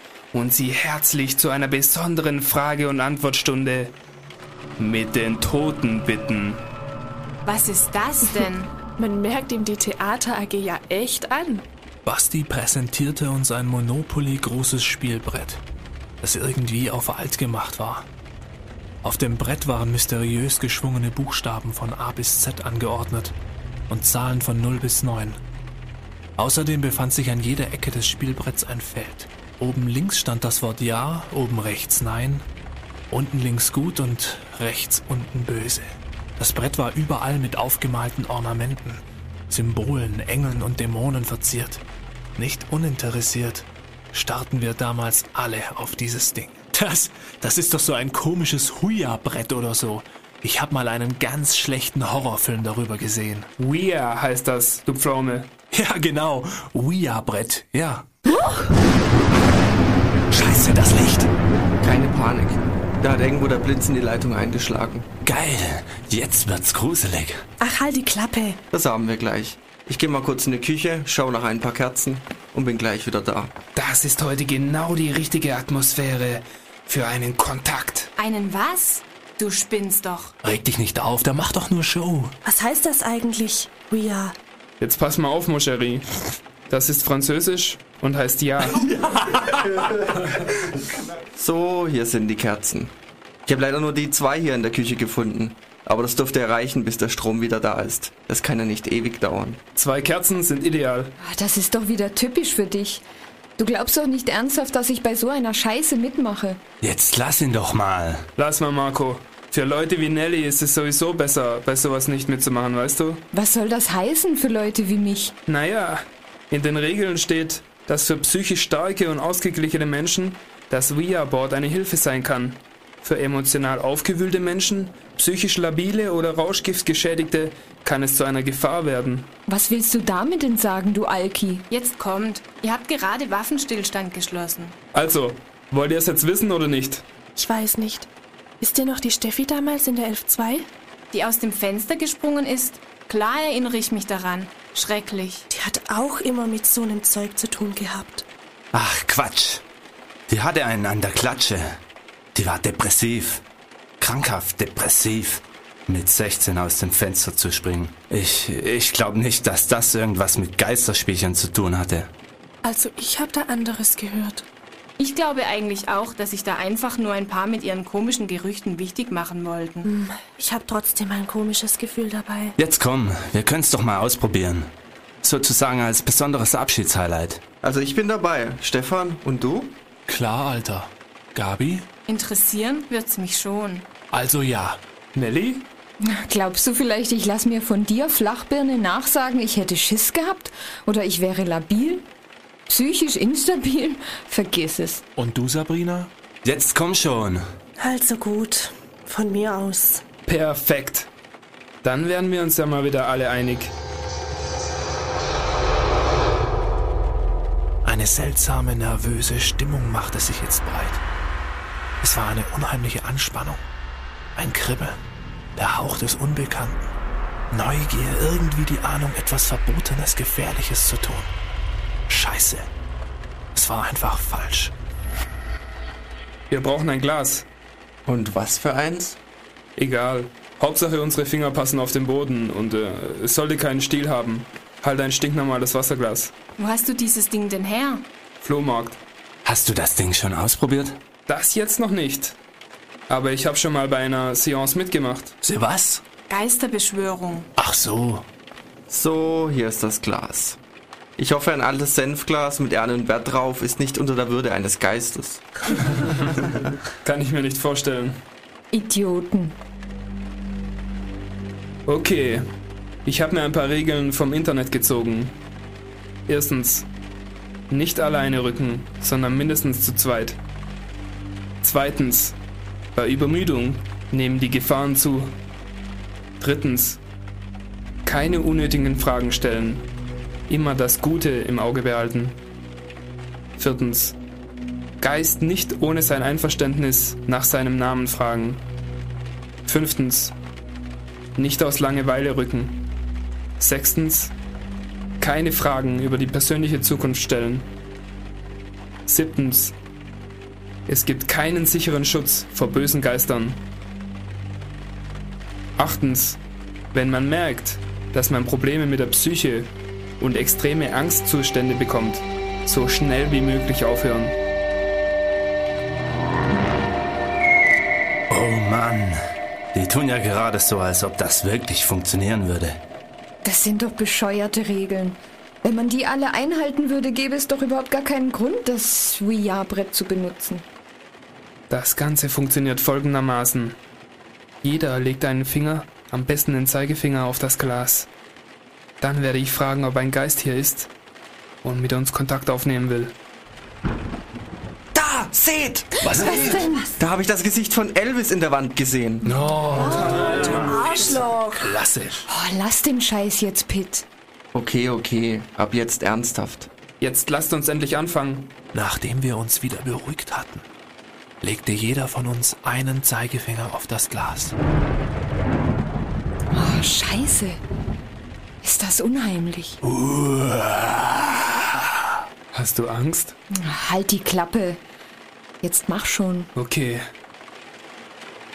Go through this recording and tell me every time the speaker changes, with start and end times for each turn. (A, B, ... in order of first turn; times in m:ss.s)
0:00.3-0:03.9 A
0:04.8-0:06.6 A
0:07.4-0:08.7 B
0:09.0-0:11.6 C
0:12.0-0:15.6 D
0:16.2-0:18.1 D
0:19.0-0:23.3 D
0:23.9-0:25.4 D
0:26.4-0:32.4 D
0:33.1-0:41.8 D
0:42.4-0:53.5 D
0:53.6-0:55.5 A
0:55.7-0:58.1 D
0:58.2-0:58.7 C
1:00.3-1:01.3 D
1:01.8-1:05.1 E
1:05.2-1:07.4 F
1:07.6-1:08.6 C
1:08.7-1:13.5 E
1:13.8-1:18.1 A
1:18.2-1:20.3 B
1:20.4-1:22.3 D
1:22.4-1:24.4 C
1:24.8-1:28.8 A
1:28.8-1:30.4 D
1:29.7-1:30.2 E
1:31.3-1:32.9 E
1:33.4-1:39.6 E
1:39.8-1:41.1 A
1:41.2-1:43.0 G
1:43.6-1:46.6 G
1:46.8-1:48.3 F
1:48.4-1:53.2 A
1:53.3-1:55.3 G
1:55.5-2:09.3 A
2:09.5-2:11.6 G
2:11.7-2:14.8 B
2:14.9-2:17.0 A
2:17.4-2:18.1 C
2:18.6-2:20.7 C
2:21.1-2:25.5 B
2:25.5-2:28.3 C
2:28.7-2:29.6 F
2:30.3-2:31.8 F
2:32.3-2:33.4 F
2:34.0-2:42.1 F
2:42.6-2:44.4 C
2:45.0-2:49.9 B
2:49.8-2:52.6 C
2:52.6-2:57.4 F
2:57.6-2:59.8 E
3:00.1-3:01.9 D
3:02.1-3:03.9 B
3:04.1-3:04.8 D
3:05.1-3:05.6 A
3:06.0-3:12.0 G
3:12.7-3:15.0 G
3:15.2-3:16.1 D
3:16.4-3:17.4 F
3:17.8-3:20.0 C
3:20.3-3:21.1 A
3:21.8-3:23.7 A
3:27.8-3:31.0 D
3:32.0-3:33.6 D
3:34.4-3:35.0 D
3:35.6-3:36.8 D
3:37.5-3:41.3 D
3:42.1-3:42.7 D
3:43.5-3:44.7 D
3:46.5-3:47.4 A
3:48.0-3:49.2 E
3:49.8-3:56.3 A
3:56.6-3:58.0 B
3:58.4-3:59.0 A
3:59.4-4:01.0 F
4:01.3-4:02.4 A
4:03.1-4:05.3 A
4:05.4-4:06.0 D
4:06.3-4:07.5 B
4:07.6-4:08.2 D
4:08.9-4:10.6 E
4:11.2-4:15.9 E
4:17.0-4:18.2 A
4:18.7-4:19.6 G
4:21.9-4:22.5 A
4:23.0-4:25.3 A
4:26.3-4:26.9 A
4:27.7-4:30.4 A
4:31.6-4:32.4 A
4:32.9-4:35.3 A
4:36.4-4:37.0 A
4:38.0-4:39.9 A
4:40.5-4:42.4 A
4:43.6-4:44.2 A
4:45.0-4:48.6 A
4:49.6-4:50.3 A
4:51.4-4:52.8 A
4:53.6-4:54.3 A
4:55.2-4:57.7 A
4:59.1-4:59.7 A
5:00.9-5:03.6 A
5:05.8-5:06.4 A
5:06.9-5:14.3 A
5:18.3-5:19.2 F
5:19.7-5:22.8 F
5:23.4-5:30.6 G
5:31.7-5:33.8 A
5:34.6-5:38.1 A
5:39.0-5:40.9 A
5:41.6-5:43.1 A
5:44.9-5:46.4 E
5:46.0-5:46.6 D
5:46.1-5:46.9 G
5:47.0-5:49.3 E
5:49.2-5:52.2 D
5:49.7-5:51.8 C
5:49.8-5:50.9 A
5:52.3-5:54.0 G
5:54.5-5:56.7 E
5:57.0-5:58.5 A
5:58.7-6:00.6 D
6:01.4-6:04.5 D
6:06.5-6:07.6 G
6:08.6-6:09.8 G
6:09.8-6:12.1 D
6:12.5-6:13.4 A
6:13.5-6:14.8 G
6:15.6-6:16.5 G
6:16.5-6:17.1 A